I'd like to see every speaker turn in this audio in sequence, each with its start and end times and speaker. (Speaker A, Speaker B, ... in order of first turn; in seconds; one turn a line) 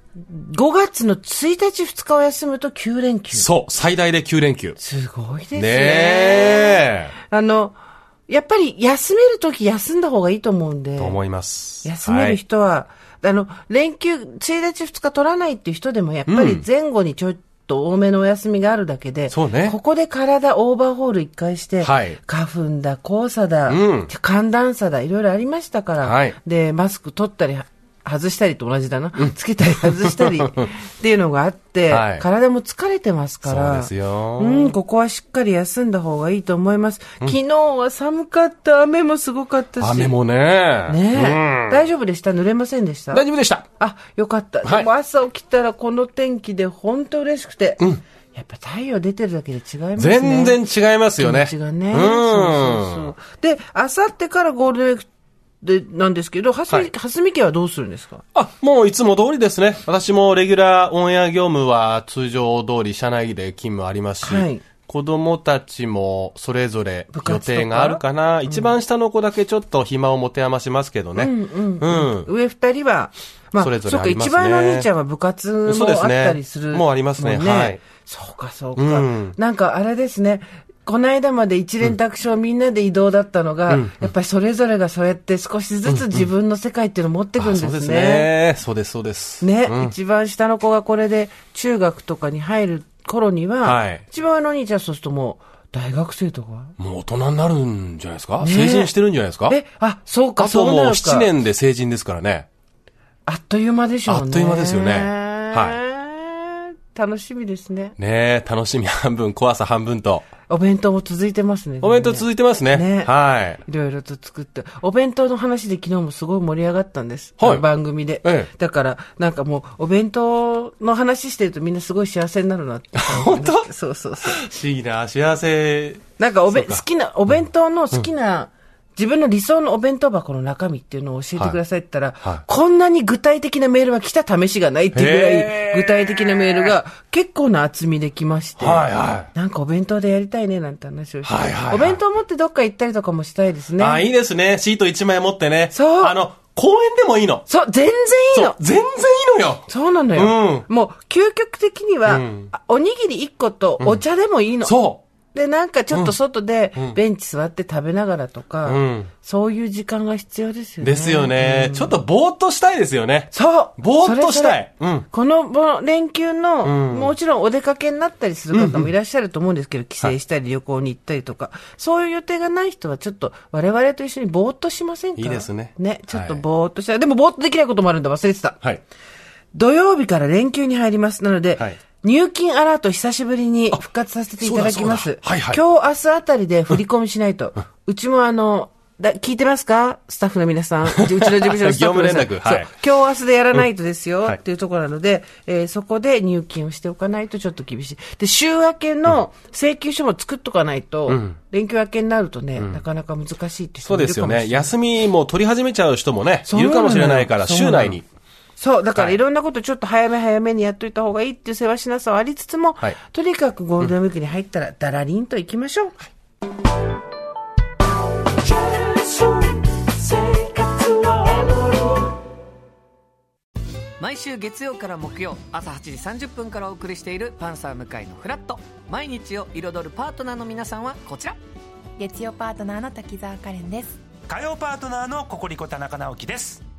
Speaker A: 0.2-3.5
Speaker B: 3.3-4.8
Speaker A: 4.8-7.8
Speaker B: 5.5-7.1
Speaker A: 8.3-11.2
Speaker B: 11.0-12.4
Speaker A: 11.8-40.1
Speaker B: 16.3-16.6
Speaker B: 19.3-19.8
Speaker B: 21.8-22.2
Speaker B: 23.7-24.1
Speaker B: 26.0-26.4
Speaker B: 29.2-30.7
Speaker B: 31.9-32.2
Speaker B: 33.5-34.8
Speaker B: 39.8-41.9
Speaker A: 40.9-43.2
Speaker B: 43.1-43.7
Speaker A: 43.8-47.8
Speaker A: 48.3-50.6
Speaker B: 50.0-53.1
Speaker A: 51.2-55.1
Speaker A: 55.6-58.2
Speaker B: 58.4-72.3
Speaker A: 64.2-64.6
Speaker A: 67.1-68.7
Speaker A: 71.2-88.3
Speaker B: 73.6-74.9
Speaker B: 75.7-77.8
Speaker B: 78.8-79.3
Speaker B: 83.7-84.1
Speaker B: 85.9-86.3
Speaker B: 87.4-89.9
Speaker A: 89.4-96.7
Speaker B: 93.6-94.0
Speaker B: 96.8-99.6
Speaker A: 98.4-98.9
Speaker A: 99.5-101.3
Speaker B: 100.4-102.5
Speaker A: 103.3-108.0
Speaker B: 104.1-105.8
Speaker B: 108.0-110.3
Speaker A: 110.5-124.4
Speaker B: 111.8-113.6
Speaker B: 117.4-117.7
Speaker B: 118.2-118.5
Speaker B: 123.0-123.7
Speaker B: 124.2-126.8
Speaker A: 126.2-144.0
Speaker B: 134.9-136.7
Speaker B: 138.6-139.3
Speaker B: 141.2-142.0
Speaker B: 143.8-147.5
Speaker A: 145.7-146.2
Speaker A: 147.5-148.6
Speaker B: 148.3-150.7
Speaker A: 149.7-154.8
Speaker B: 152.1-152.5
Speaker B: 154.6-155.0
Speaker A: 155.3-161.9
Speaker B: 158.7-159.1
Speaker B: 160.8-165.1
Speaker A: 163.3-164.6
Speaker A: 165.1-178.6
Speaker B: 166.6-167.1
Speaker B: 168.5-168.9
Speaker B: 175.2-176.4
Speaker A: 179.5-204.7
Speaker B: 184.4-185.6
Speaker B: 191.0-192.7
Speaker B: 201.1-201.4
Speaker B: 203.8-208.0
Speaker A: 206.5-208.0
Speaker A: 208.6-216.0
Speaker A: 220.1-221.5
Speaker C: 224.0-231.4
Speaker D: 232.0-234.0
Speaker E: 234.3-236.6